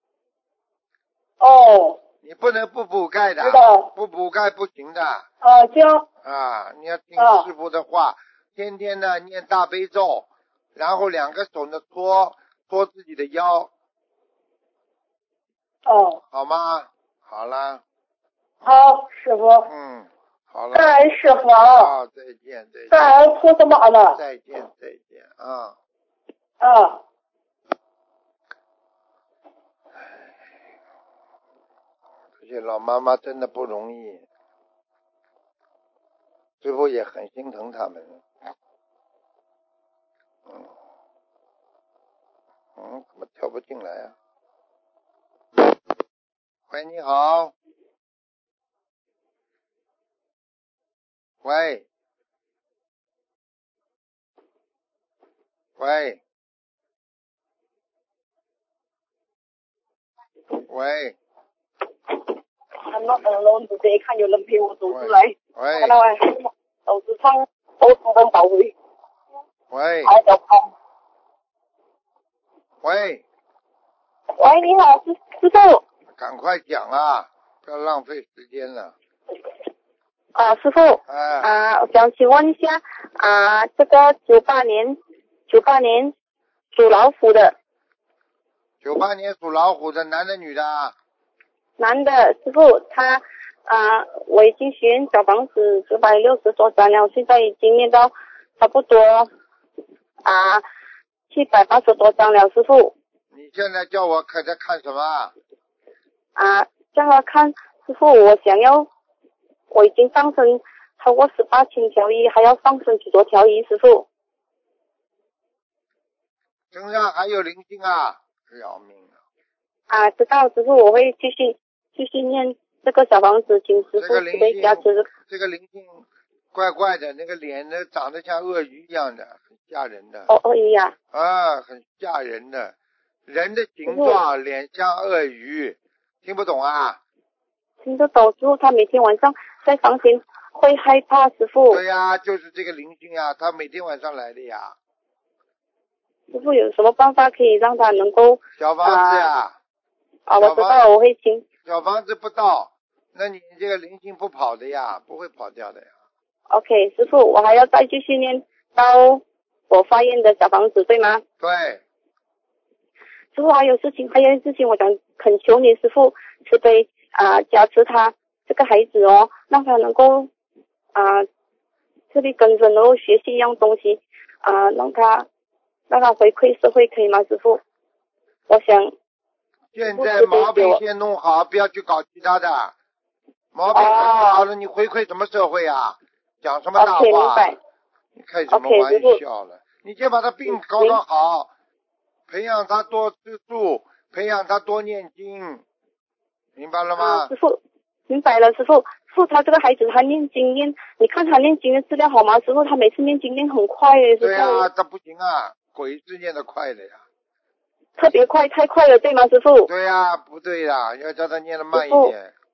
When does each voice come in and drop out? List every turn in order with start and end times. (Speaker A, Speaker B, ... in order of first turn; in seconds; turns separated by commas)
Speaker A: 1.4-2.0, Speaker B: 2.2-5.2, Speaker A: 3.4-3.9, Speaker A: 5.4-6.1, Speaker B: 6.2-13.7, Speaker A: 7.2-7.5, Speaker A: 15.8-16.2, Speaker B: 16.3-17.8, Speaker A: 18.6-19.7, Speaker B: 19.6-20.9, Speaker A: 20.7-21.9, Speaker B: 21.8-23.1, Speaker A: 22.9-24.2, Speaker B: 24.1-25.8, Speaker A: 26.6-27.0, Speaker B: 32.4-34.2, Speaker B: 36.6-38.2, Speaker B: 42.8-44.1, Speaker B: 46.7-47.5, Speaker B: 51.4-51.8, Speaker B: 55.8-56.2, Speaker B: 60.6-61.1, Speaker C: 62.9-68.7, Speaker B: 64.9-65.9, Speaker B: 69.7-70.1, Speaker C: 70.0-70.7, Speaker B: 72.8-73.2, Speaker C: 74.4-75.8, Speaker B: 76.2-78.9, Speaker C: 80.3-86.1, Speaker B: 81.1-81.5, Speaker C: 86.7-87.5, Speaker B: 88.8-90.9, Speaker C: 91.8-99.3, Speaker C: 100.2-100.6, Speaker C: 101.3-102.9, Speaker B: 103.3-105.3, Speaker C: 106.3-108.9, Speaker C: 109.7-114.0, Speaker B: 116.7-119.2, Speaker C: 119.9-125.1, Speaker B: 124.0-130.3, Speaker C: 130.3-130.9, Speaker B: 131.1-132.7, Speaker B: 133.3-137.0, Speaker C: 133.9-134.2, Speaker C: 137.8-141.8, Speaker B: 141.7-144.8, Speaker C: 146.3-148.4, Speaker B: 148.6-149.6, Speaker C: 150.3-151.4, Speaker B: 150.4-150.8, Speaker B: 151.6-155.9, Speaker C: 156.5-161.2, Speaker B: 161.4-161.8, Speaker C: 163.3-170.3, Speaker C: 170.9-171.2, Speaker C: 172.1-175.3, Speaker C: 175.9-177.6, Speaker C: 178.5-178.9, Speaker B: 179.7-182.7, Speaker C: 179.9-180.8, Speaker B: 183.5-187.6, Speaker C: 183.7-184.5, Speaker C: 186.8-187.6, Speaker B: 188.1-191.5, Speaker C: 188.5-189.2, Speaker C: 190.5-191.0, Speaker B: 192.3-195.6, Speaker B: 196.6-197.3, Speaker C: 197.0-204.7, Speaker B: 204.2-207.0, Speaker C: 208.0-209.7, Speaker B: 209.7-212.3, Speaker C: 211.7-212.1